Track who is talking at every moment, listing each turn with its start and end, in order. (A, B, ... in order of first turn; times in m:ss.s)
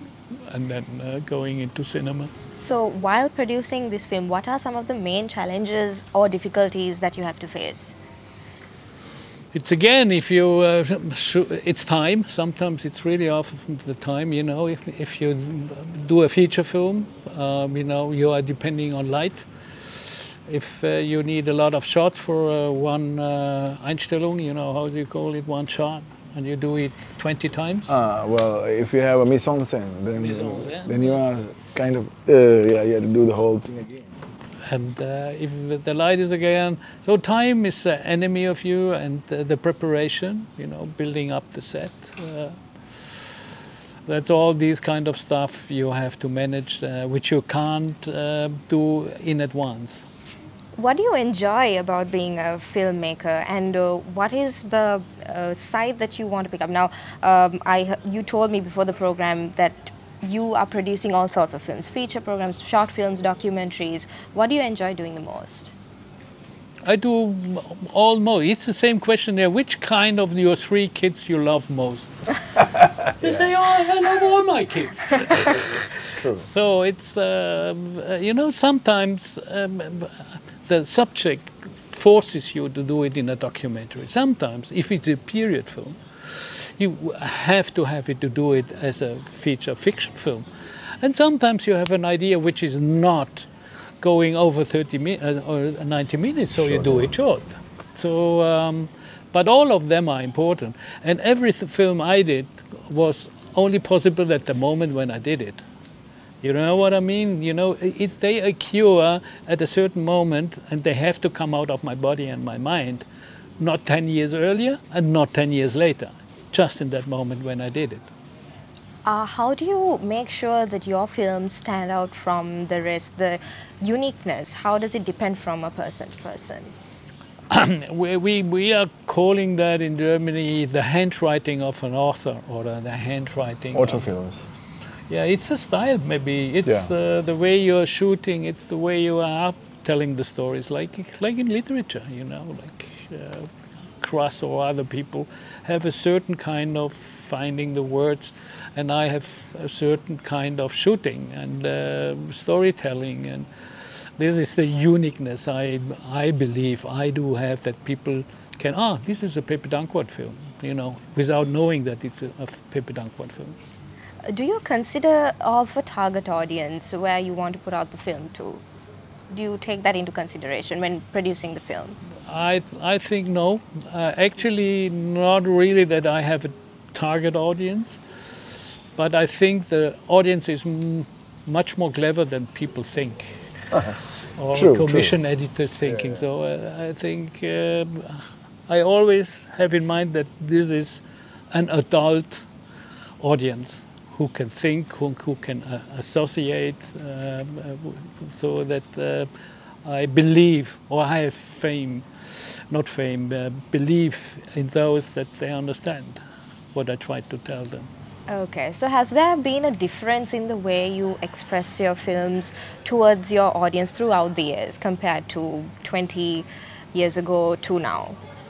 0:00.5-0:02.3 A
0:02.5-0:08.0 B
0:09.5-0:27.9 A
0:27.9-0:34.1 C
0:30.2-0:31.2 A
0:34.6-0:43.2 A
0:44.0-0:50.0 A
0:50.8-1:05.7 B
1:06.8-1:12.1 A
1:13.1-1:30.4 A
1:16.2-1:16.4 C
1:31.0-1:33.5 A
1:34.0-1:45.6 A
1:36.5-1:37.1 C
1:46.4-1:53.0 A
1:53.6-1:58.1 A
1:59.0-2:06.7 B
2:07.5-2:14.1 A
2:13.7-2:14.5 C
2:15.1-2:23.5 A
2:16.6-2:16.9 C
2:24.0-2:43.6 A
2:44.3-2:48.6 B
2:49.3-2:52.0 B
2:52.2-2:58.0 A
2:59.0-3:03.8 A
3:04.3-3:12.5 A
3:04.5-3:05.2 C
3:05.9-3:06.2 C
3:13.2-3:19.3 A
3:19.8-3:26.2 A
3:26.7-3:27.9 A
3:28.3-3:38.2 B